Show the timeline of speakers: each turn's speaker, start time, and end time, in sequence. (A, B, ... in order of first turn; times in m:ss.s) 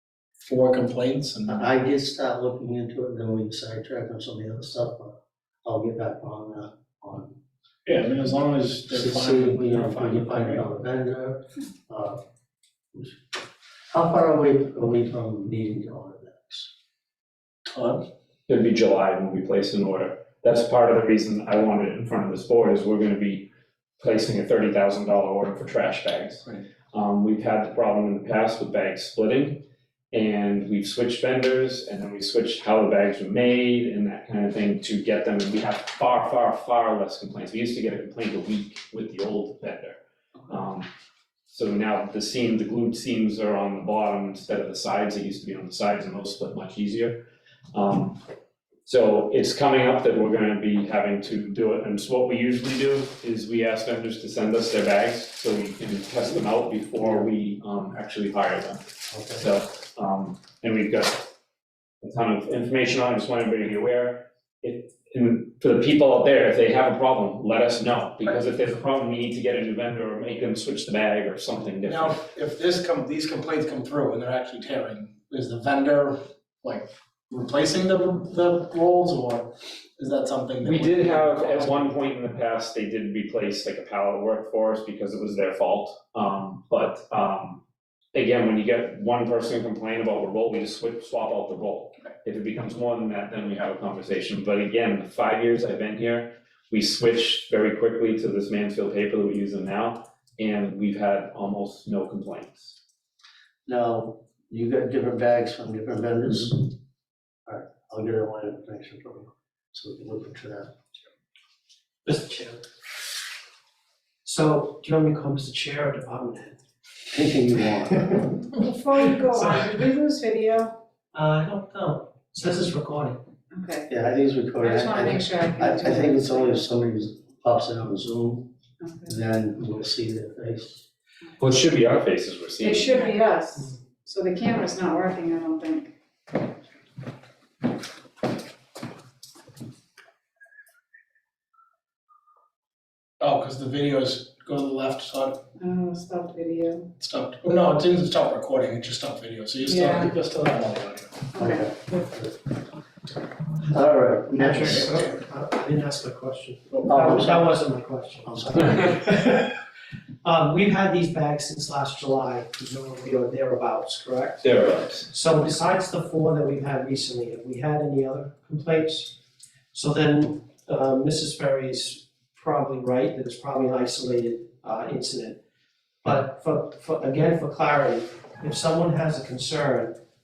0:00.4-0:01.7 A
0:01.5-0:05.1 B
0:05.6-0:07.3 B
0:07.8-0:10.6 A
0:08.9-0:12.2 B
0:12.9-0:13.2 B
0:13.9-0:16.7 B
0:17.6-0:18.0 A
0:18.5-0:23.5 C
0:24.0-0:40.9 C
0:41.5-0:47.2 C
0:47.7-0:48.2 C
0:48.8-1:01.2 C
0:59.1-0:59.4 B
1:02.0-1:12.2 C
1:11.8-1:21.9 A
1:20.6-1:27.6 C
1:28.1-1:42.8 C
1:43.6-1:46.7 B
1:47.5-1:51.0 B
1:52.0-1:52.6 D
1:54.2-1:56.6 D
1:57.1-1:58.5 B
1:58.6-2:00.7 E
1:59.4-1:59.7 D
2:01.1-2:03.2 D
2:03.5-2:03.9 E
2:03.9-2:08.5 B
2:04.6-2:06.6 E
2:08.8-2:09.2 E
2:09.0-2:10.8 B
2:11.4-2:12.9 C
2:12.6-2:15.9 E
2:23.2-2:25.4 A
2:25.6-2:26.9 E
2:27.0-2:31.3 A
2:29.7-2:30.1 E
2:31.3-2:31.6 E
2:31.4-2:32.4 B
2:33.6-2:34.9 B
2:34.4-2:39.6 D
2:36.7-2:37.0 A
2:36.9-2:37.5 B
2:38.3-2:38.7 B
2:40.2-2:44.5 D
2:44.4-2:45.1 C
2:45.0-2:49.2 D
2:49.7-2:55.4 D
2:56.0-3:00.0 D